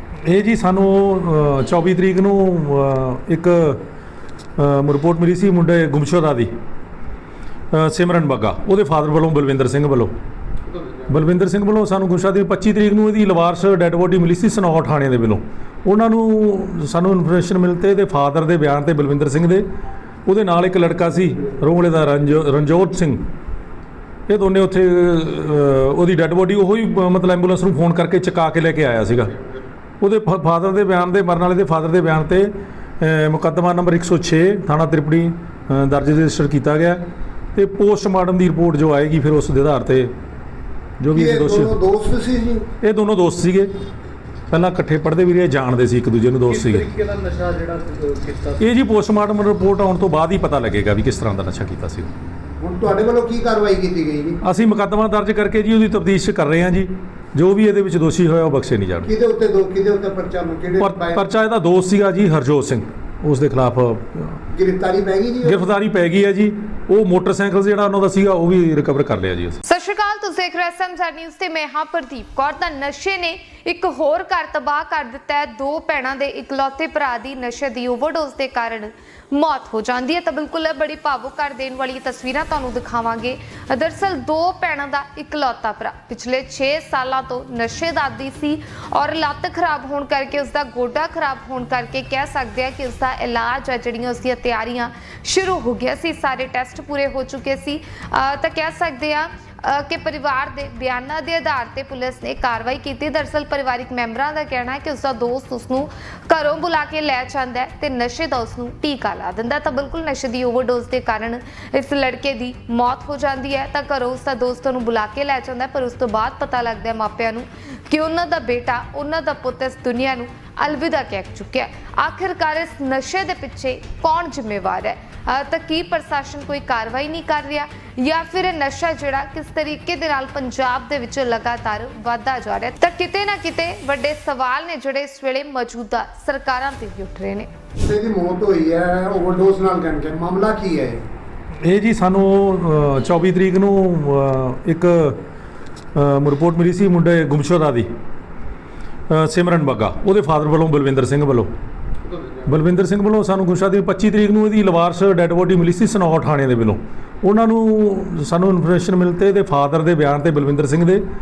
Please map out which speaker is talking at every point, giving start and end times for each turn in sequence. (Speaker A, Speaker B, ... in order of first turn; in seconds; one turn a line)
Speaker A: 0.3-3.8
Speaker A: 4.6-6.5
Speaker A: 7.7-10.1
Speaker A: 11.1-19.7
Speaker A: 20.3-23.2
Speaker A: 24.3-29.3
Speaker A: 30.0-37.0
Speaker A: 37.5-40.1
Speaker A: 41.0-41.8
Speaker B: 41.1-42.7
Speaker A: 42.8-43.7
Speaker A: 44.5-46.9
Speaker C: 46.5-48.6
Speaker A: 48.6-52.1
Speaker B: 52.6-54.4
Speaker A: 54.4-59.1
Speaker B: 59.0-61.2
Speaker A: 60.8-64.4
Speaker B: 64.5-65.6
Speaker A: 65.4-69.6
Speaker D: 69.7-137.5
Speaker B: 137.8-141.0
Speaker A: 141.6-145.2
Speaker A: 145.9-147.9
Speaker A: 149.1-151.5
Speaker A: 152.4-161.0